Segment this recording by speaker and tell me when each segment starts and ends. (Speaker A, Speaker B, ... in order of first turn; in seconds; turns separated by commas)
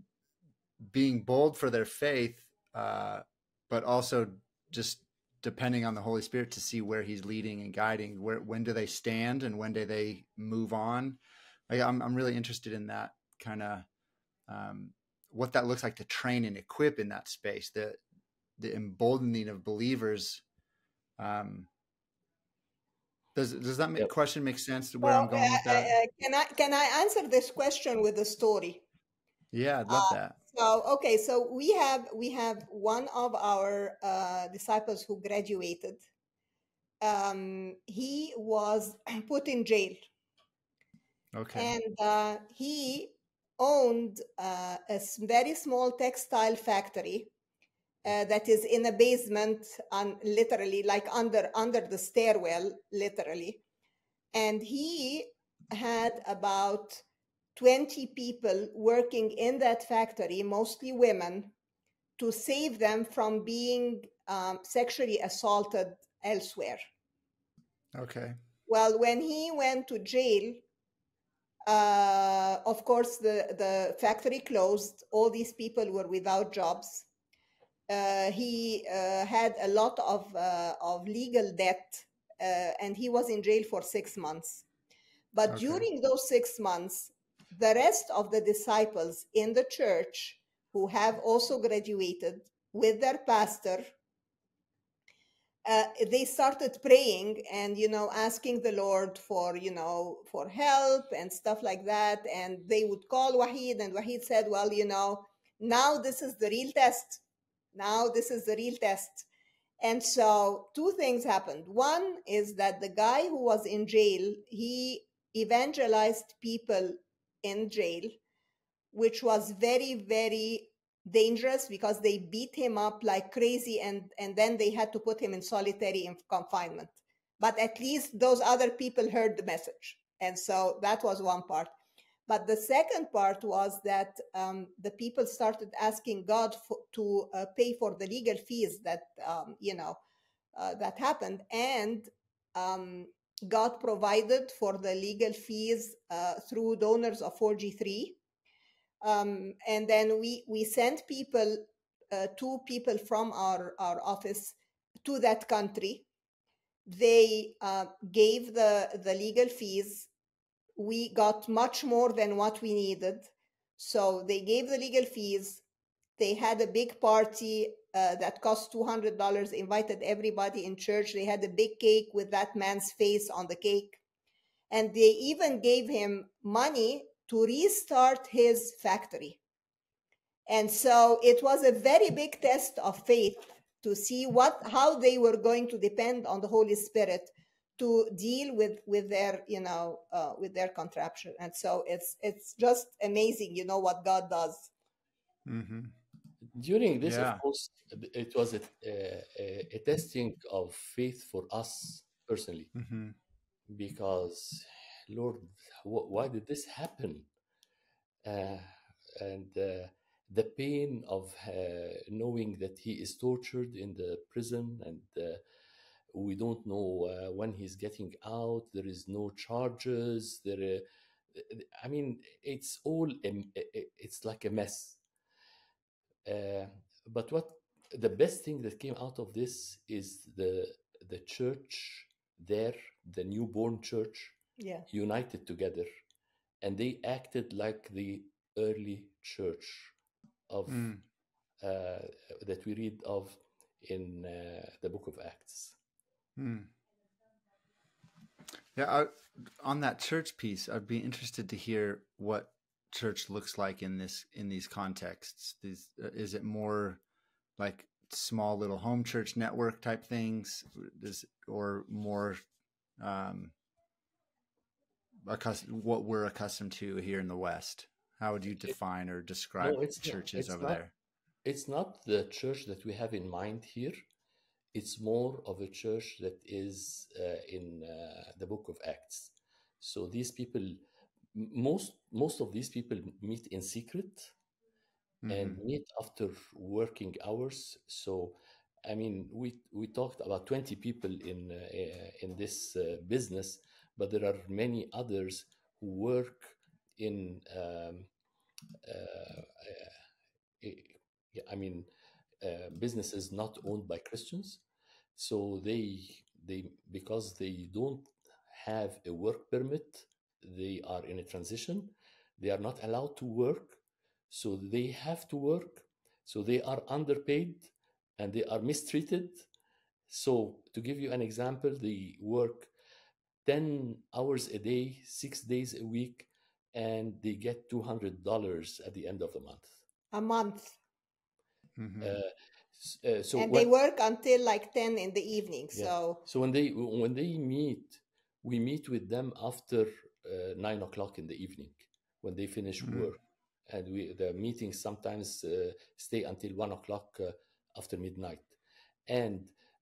Speaker A: 0.9-13.8, Speaker A: 14.5-18.0, Speaker A: 18.6-20.4, Speaker A: 21.2-21.7, Speaker A: 23.3-25.9, Speaker B: 25.0-28.8, Speaker A: 29.5-30.4, Speaker B: 29.9-36.0, Speaker B: 37.0-40.0, Speaker A: 41.3-41.7, Speaker B: 41.5-47.3, Speaker B: 48.0-53.6, Speaker B: 54.3-57.0, Speaker B: 57.5-61.5, Speaker B: 62.2-66.8, Speaker A: 67.9-68.4, Speaker B: 68.7-70.6, Speaker B: 71.7-77.1, Speaker B: 77.9-84.6, Speaker B: 85.3-93.9, Speaker A: 85.5-85.8, Speaker B: 95.6-107.2, Speaker B: 107.7-109.3, Speaker B: 109.8-118.2, Speaker B: 118.9-131.7, Speaker B: 132.3-140.0, Speaker B: 140.5-148.2, Speaker B: 149.0-156.1, Speaker B: 156.8-160.1, Speaker B: 160.8-165.6, Speaker B: 166.2-174.0, Speaker B: 174.7-179.4, Speaker B: 180.5-194.7, Speaker A: 195.4-195.9, Speaker C: 196.5-202.7, Speaker A: 197.0-197.4, Speaker A: 202.7-203.1, Speaker C: 203.7-207.3, Speaker C: 208.2-215.4, Speaker C: 216.1-225.0, Speaker C: 226.2-234.3, Speaker B: 234.6-234.8, Speaker C: 234.9-235.9, Speaker C: 236.6-239.9, Speaker C: 240.5-240.9, Speaker A: 240.7-241.0, Speaker C: 241.6-245.8, Speaker A: 246.4-246.7, Speaker A: 248.7-257.0, Speaker A: 257.6-262.4, Speaker A: 263.0-263.5, Speaker A: 265.2-270.9, Speaker C: 269.6-270.8, Speaker C: 271.4-274.0, Speaker C: 274.7-280.8, Speaker C: 281.3-284.3, Speaker A: 285.2-285.6, Speaker C: 285.3-298.1, Speaker C: 298.8-299.9, Speaker C: 300.6-301.9, Speaker C: 302.4-304.6, Speaker C: 305.1-319.5, Speaker C: 320.1-322.7, Speaker C: 323.4-329.7, Speaker B: 330.1-330.8, Speaker A: 331.8-332.2, Speaker C: 332.0-333.7, Speaker B: 333.4-336.2, Speaker C: 335.7-348.5, Speaker A: 342.8-343.1, Speaker C: 349.1-349.5